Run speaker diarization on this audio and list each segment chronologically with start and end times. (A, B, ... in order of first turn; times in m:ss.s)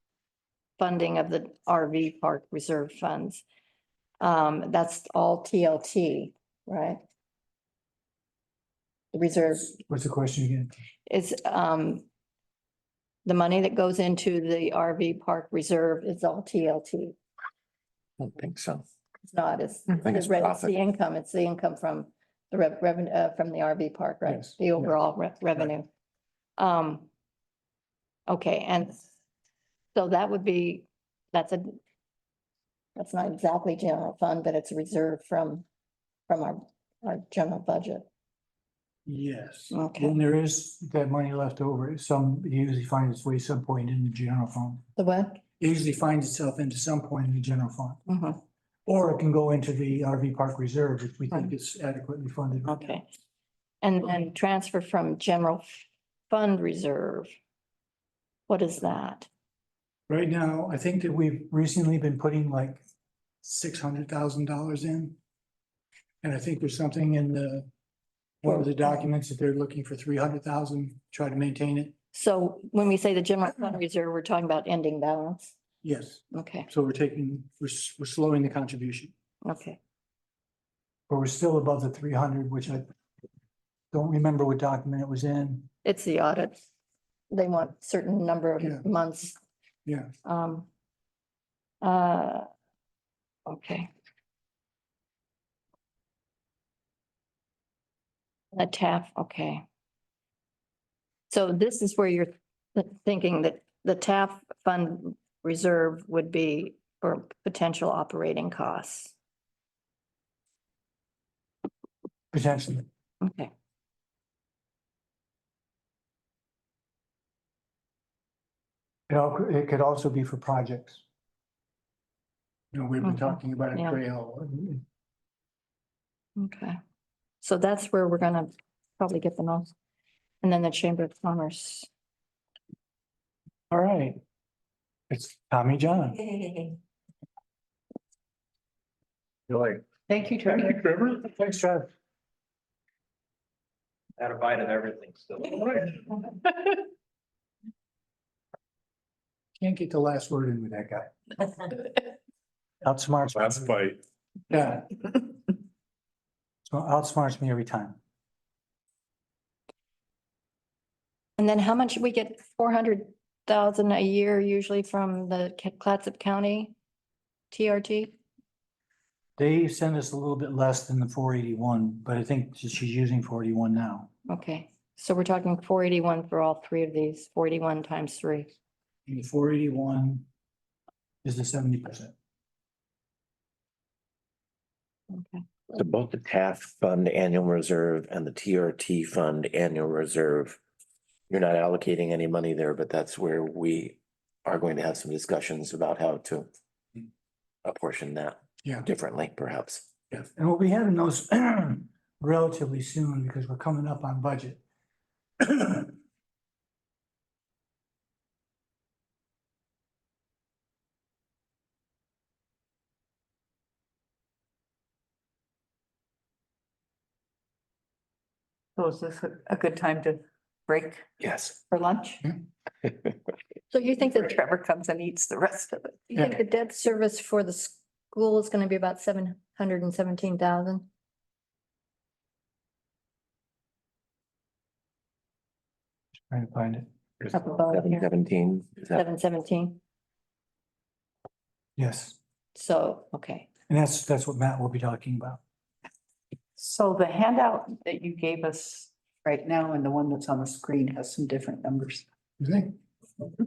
0:00.8-0:03.4 A
0:04.2-0:07.0 A
0:09.1-0:09.8 A
0:09.7-0:10.7 B
0:11.1-0:12.0 A
0:13.2-0:17.2 A
0:18.2-0:18.8 C
0:19.2-0:25.9 A
0:20.0-0:20.7 C
0:24.2-0:24.9 B
0:26.6-0:27.1 A
0:28.3-0:29.0 A
0:29.9-0:31.8 A
0:33.0-0:35.6 A
0:36.3-0:38.1 A
0:39.0-0:44.8 B
0:39.7-0:40.2 A
0:45.0-0:45.4 A
0:45.6-0:48.0 B
0:48.1-0:48.4 A
0:48.8-0:52.9 B
0:52.7-0:53.1 A
0:53.8-0:57.3 A
0:58.5-0:59.3 A
1:00.1-1:02.8 B
1:03.4-1:05.2 B
1:06.2-1:07.7 B
1:08.4-1:11.9 B
1:12.1-1:15.5 A
1:15.8-1:19.1 B
1:16.3-1:16.7 A
1:19.4-1:19.8 A
1:21.1-1:22.8 B
1:23.9-1:25.7 B
1:25.8-1:26.6 A
1:27.3-1:29.4 A
1:28.6-1:28.8 B
1:30.2-1:30.7 A
1:31.8-1:32.5 A
1:33.4-1:33.9 A
1:38.5-1:39.6 A
1:41.3-1:49.1 A
1:52.3-1:52.8 B
1:53.2-1:53.5 A
1:59.1-2:01.0 B
2:02.7-2:04.8 B
2:03.0-2:04.0 A
2:06.4-2:06.8 A
2:07.4-2:09.7 A
2:10.4-2:11.9 A
2:13.7-2:14.2 B
2:15.1-2:16.7 B
2:20.1-2:20.8 D
2:20.7-2:21.9 B
2:24.2-2:25.7 E
2:29.6-2:31.7 B
2:32.8-2:33.8 B
2:33.4-2:34.0 E
2:34.5-2:35.2 B
2:36.6-2:38.0 B
2:41.4-2:46.7 A
2:47.5-2:48.2 A
2:49.4-2:54.1 B
2:54.3-2:58.5 A
2:59.1-3:00.2 B
3:01.2-3:02.1 B
3:05.1-3:05.4 A
3:05.7-3:10.6 C
3:11.3-3:16.5 C
3:17.6-3:19.9 C
3:20.1-3:24.6 B
3:25.4-3:25.9 B
3:38.8-3:42.2 D
3:43.7-3:46.1 D
3:46.1-3:50.8 A
3:56.3-3:57.3 B
3:57.3-3:58.1 A
3:57.7-3:59.0 C
3:58.9-3:59.8 A
4:01.8-4:02.2 B
4:02.5-4:03.5 A
4:03.7-4:05.4 B
4:06.6-4:12.0 D
4:12.4-4:12.7 B